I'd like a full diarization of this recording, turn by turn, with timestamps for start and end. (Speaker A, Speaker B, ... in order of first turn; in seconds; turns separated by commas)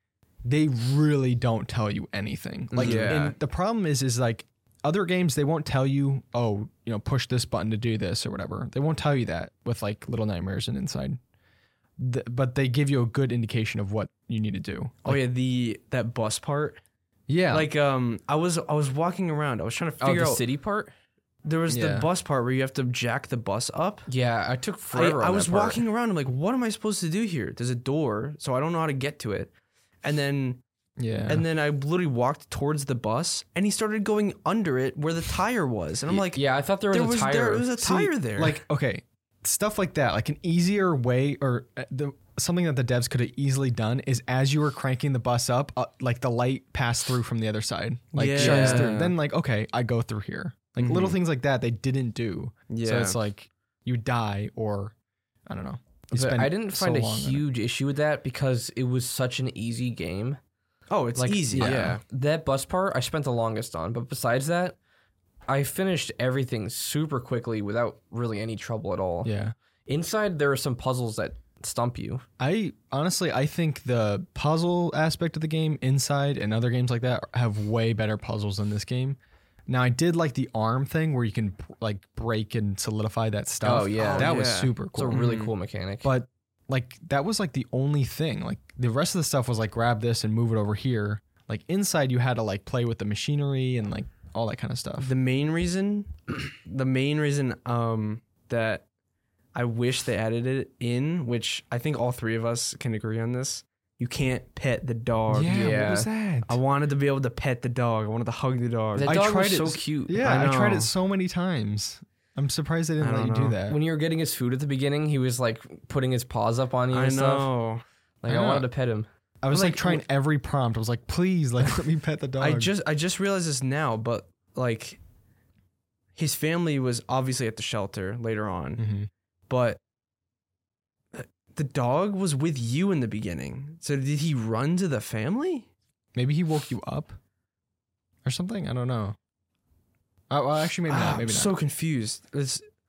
Speaker A: 0.5-11.2, Speaker B: 2.7-3.4, Speaker C: 2.8-3.3, Speaker A: 12.0-15.2, Speaker B: 15.1-16.8, Speaker A: 17.3-17.7, Speaker B: 17.5-20.4, Speaker C: 20.0-20.9, Speaker B: 21.4-24.1, Speaker A: 21.7-22.1, Speaker C: 24.1-25.9, Speaker B: 24.9-29.5, Speaker B: 30.0-30.6, Speaker A: 31.0-31.4, Speaker B: 31.3-38.6, Speaker C: 36.1-38.1, Speaker A: 37.8-54.9, Speaker B: 48.1-49.0, Speaker C: 48.4-49.1, Speaker B: 50.8-51.2, Speaker B: 52.7-53.2, Speaker A: 55.5-57.5, Speaker C: 56.1-60.4, Speaker B: 60.9-62.0, Speaker C: 61.2-64.8, Speaker A: 61.5-62.0, Speaker C: 65.5-69.3, Speaker A: 69.2-69.5, Speaker C: 69.9-72.2, Speaker A: 72.4-85.2, Speaker C: 83.6-86.1, Speaker B: 84.0-85.5, Speaker A: 86.0-95.1, Speaker B: 95.0-98.8, Speaker B: 99.5-105.7, Speaker A: 105.3-106.6, Speaker C: 105.5-106.1, Speaker B: 106.5-109.1, Speaker C: 109.0-110.2, Speaker A: 109.0-113.8, Speaker B: 110.2-110.9, Speaker B: 113.0-113.6, Speaker C: 113.7-117.5, Speaker B: 116.9-117.8, Speaker C: 118.2-120.0, Speaker A: 118.3-118.7, Speaker A: 119.4-122.7, Speaker B: 122.4-125.0, Speaker B: 126.2-128.8, Speaker A: 128.8-129.1, Speaker B: 129.5-129.8, Speaker B: 131.1-135.7, Speaker A: 136.2-137.2, Speaker A: 138.2-139.2, Speaker A: 140.3-141.5, Speaker B: 140.9-142.7